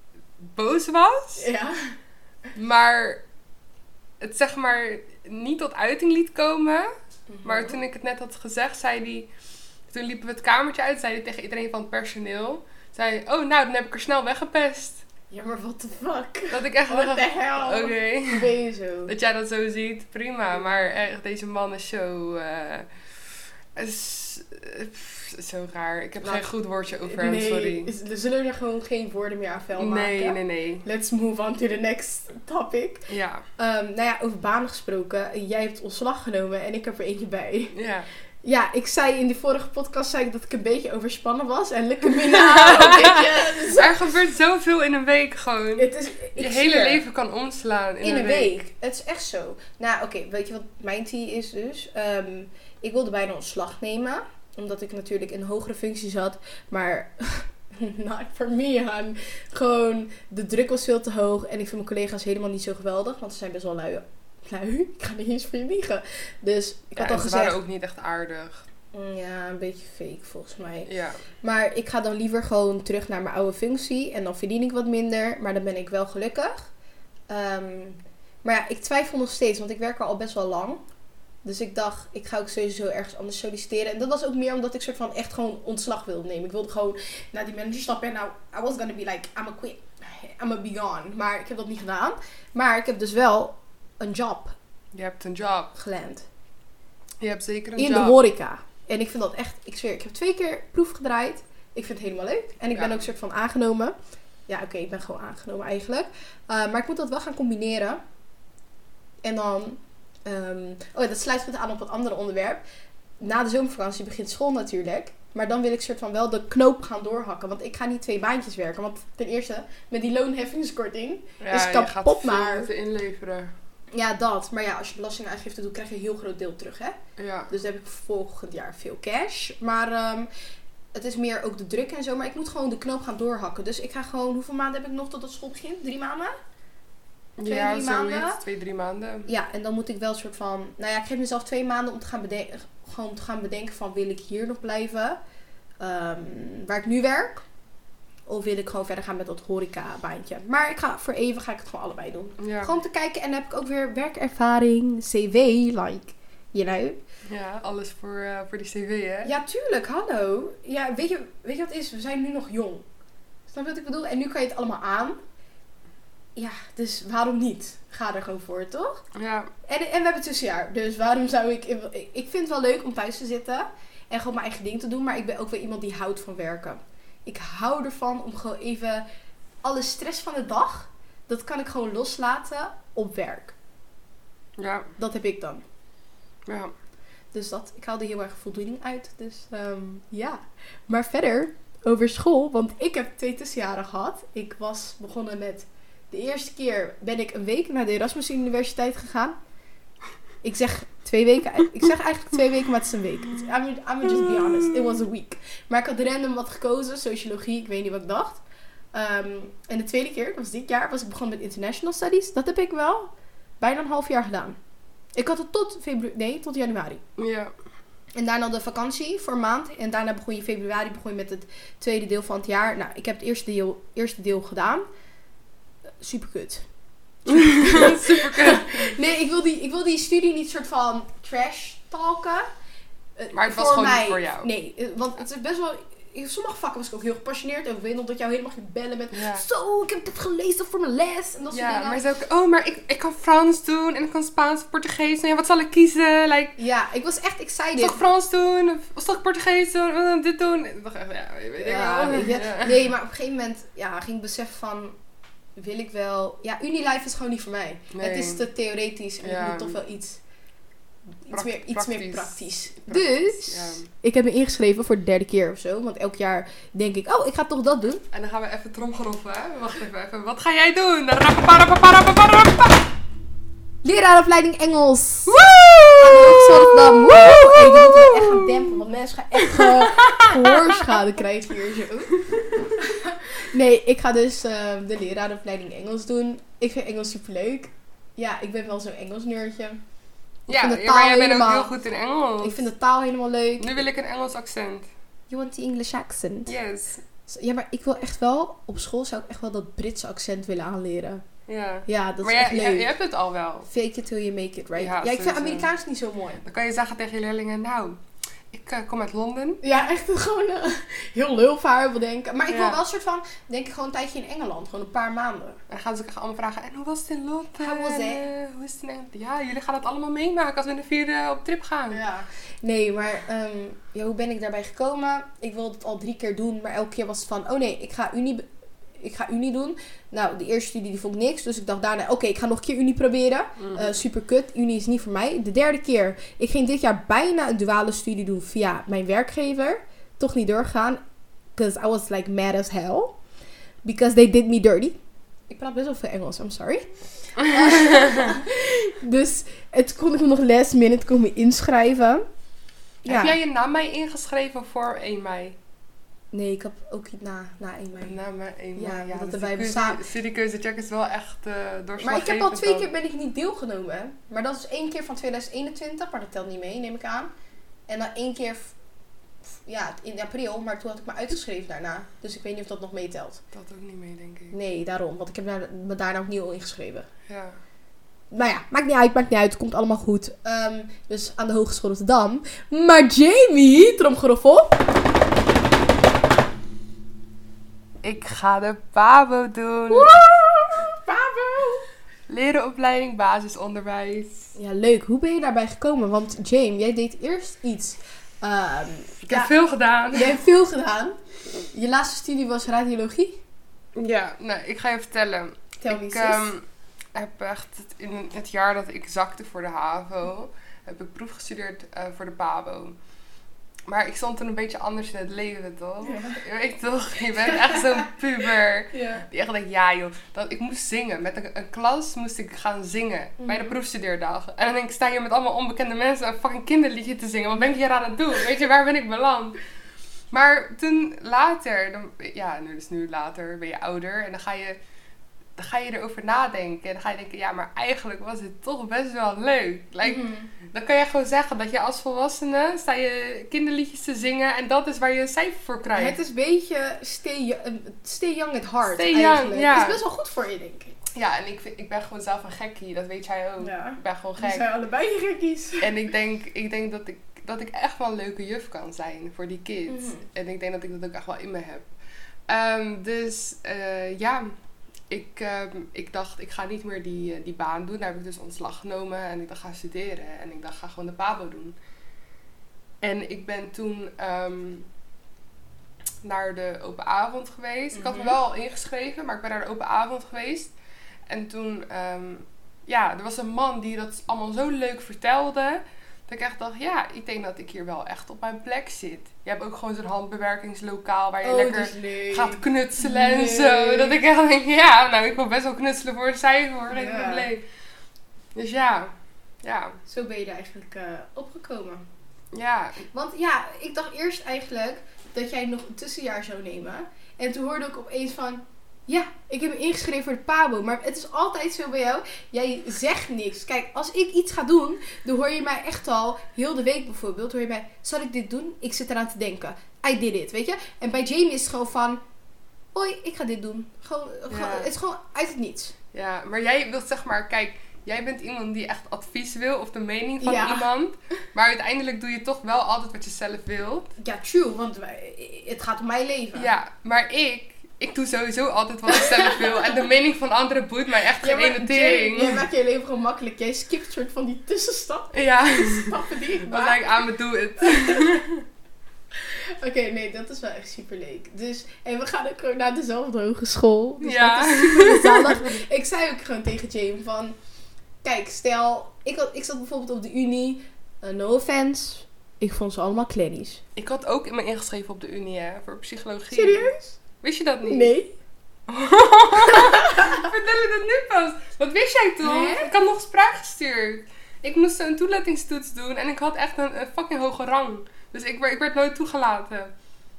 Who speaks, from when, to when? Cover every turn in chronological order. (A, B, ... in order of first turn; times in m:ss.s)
0:00.4-0:01.5 A
0:01.4-0:01.9 B
0:02.5-0:03.2 A
0:04.2-0:06.9 A
0:07.3-0:07.8 B
0:07.4-0:09.3 A
0:09.9-0:15.1 A
0:15.3-0:19.1 B
0:16.5-0:18.5 A
0:19.1-0:22.9 A
0:20.5-0:20.8 B
0:23.8-0:27.9 A
0:26.2-0:26.5 B
0:27.0-0:33.0 B
0:29.8-0:30.9 A
0:33.1-0:33.4 A
0:33.6-0:37.7 B
0:37.7-0:38.1 A
0:38.4-0:44.0 B
0:42.2-0:48.6 A
0:45.8-0:47.0 B
0:48.0-1:07.6 B
1:07.0-1:08.6 A
1:08.9-1:10.9 B
1:10.9-1:11.2 A
1:11.4-1:16.7 B
1:17.3-1:20.8 B
1:21.4-1:34.6 B
1:34.9-1:35.7 A
1:35.7-1:36.3 B
1:37.2-1:38.2 A
1:37.8-1:44.0 B
1:42.7-1:43.0 A
1:44.5-1:48.0 B
1:49.2-1:52.6 B
1:53.2-2:02.7 B
2:01.4-2:03.5 A
2:03.9-2:07.0 B
2:07.2-2:07.5 A
2:07.5-2:10.3 B
2:10.9-2:16.3 B
2:17.4-2:19.3 A
2:17.5-2:18.4 B
2:19.3-2:25.2 B
2:25.8-2:27.4 B
2:28.3-2:37.0 B
2:32.4-2:32.7 A
2:37.3-2:39.3 A
2:39.2-2:42.9 B
2:43.5-2:45.2 B
2:46.4-2:49.0 B
2:49.2-2:49.5 A
2:49.7-2:59.0 B
2:59.6-3:03.6 B
3:04.6-3:04.9 A
3:05.0-3:05.6 B
3:06.5-3:06.7 A
3:07.3-3:19.4 B
3:20.4-3:34.6 B
3:24.1-3:24.9 A
3:35.2-3:37.0 B
3:37.2-3:37.5 A
3:38.2-3:44.9 B
3:46.0-3:46.7 B
3:47.3-3:49.0 A
3:47.3-3:52.5 B
3:53.2-4:02.0 B
3:53.3-3:54.5 A
3:59.1-3:59.4 A
4:01.5-4:06.6 A
4:06.6-4:08.0 B
4:07.8-4:12.9 A
4:11.6-4:15.0 B
4:15.6-4:20.2 B
4:17.9-4:18.5 A
4:19.2-4:19.8 A
4:21.2-4:28.0 B
4:21.3-4:23.9 A
4:28.1-4:32.9 A
4:33.8-4:42.2 B
4:35.3-4:38.8 A
4:39.4-4:41.1 A
4:42.1-4:42.7 A
4:42.8-4:49.8 B
4:50.5-4:52.6 A
4:50.5-4:51.7 B
4:52.4-4:53.8 B
4:53.6-4:54.9 A
4:55.3-4:56.5 B
4:56.5-4:57.0 A
4:57.3-5:01.2 B
5:01.5-5:03.7 A
5:01.9-5:02.9 B
5:03.7-5:06.4 B
5:04.8-5:05.7 A
5:06.4-5:08.0 A
5:08.5-5:09.6 A
5:09.6-5:15.6 B
5:12.5-5:12.8 A
5:15.7-5:22.0 A
5:17.6-5:18.3 B
5:21.9-5:28.5 B
5:29.0-5:41.0 B
5:33.6-5:34.0 A
5:41.6-5:43.2 B
5:43.8-5:45.0 B
5:45.5-5:52.2 B
5:47.4-5:48.3 A
5:53.0-5:53.4 B
5:53.1-5:55.6 A
5:56.3-5:58.2 B
5:58.0-6:02.9 A
5:58.8-6:00.0 B
6:02.0-6:07.3 B
6:07.9-6:08.8 B
6:09.4-6:13.4 B
6:13.5-6:14.6 A
6:14.5-6:17.1 B
6:17.3-6:17.6 A
6:18.3-6:24.8 B
6:28.0-6:30.2 A
6:29.9-6:31.9 B
6:32.3-6:34.5 A
6:34.6-6:39.5 B
6:39.2-6:40.4 A
6:40.1-6:41.2 B
6:41.7-6:43.4 B
6:44.0-6:53.0 A
6:45.8-6:46.5 B
6:53.9-7:09.6 A
6:56.0-6:56.4 B
6:57.5-6:58.1 B
6:58.9-6:59.2 B
7:03.4-7:03.8 B
7:10.3-7:14.8 A
7:15.6-7:26.2 A
7:20.0-7:20.5 B
7:25.9-7:30.9 B
7:28.8-7:30.0 A
7:31.1-7:34.6 A
7:33.6-7:35.9 B
7:35.8-7:41.9 A
7:39.9-7:40.2 B
7:42.5-7:44.5 A
7:45.1-7:51.8 A
7:53.0-7:54.9 A
7:56.2-8:00.7 A
7:57.9-7:58.4 B
8:01.3-8:17.6 A
8:11.4-8:14.2 B
8:16.9-8:17.5 B
8:18.6-8:19.1 A
8:19.6-8:20.0 A
8:20.1-8:22.1 B
8:22.5-8:23.0 A
8:23.1-8:42.2 B
8:42.9-8:46.0 B
8:44.5-8:44.9 A
8:46.1-8:54.1 A
8:50.4-8:50.9 B
8:54.2-8:56.7 B
8:56.5-9:02.6 A
8:59.1-9:00.0 B
9:01.4-9:07.2 B
9:05.3-9:08.6 A
9:07.8-9:08.4 B
9:09.4-9:17.6 B
9:14.2-9:15.8 A
9:18.2-9:23.8 B
9:24.0-9:28.1 A
9:26.5-9:27.2 B
9:27.9-9:28.3 B
9:28.9-9:39.9 A
9:29.6-9:30.5 B
9:32.4-9:32.9 B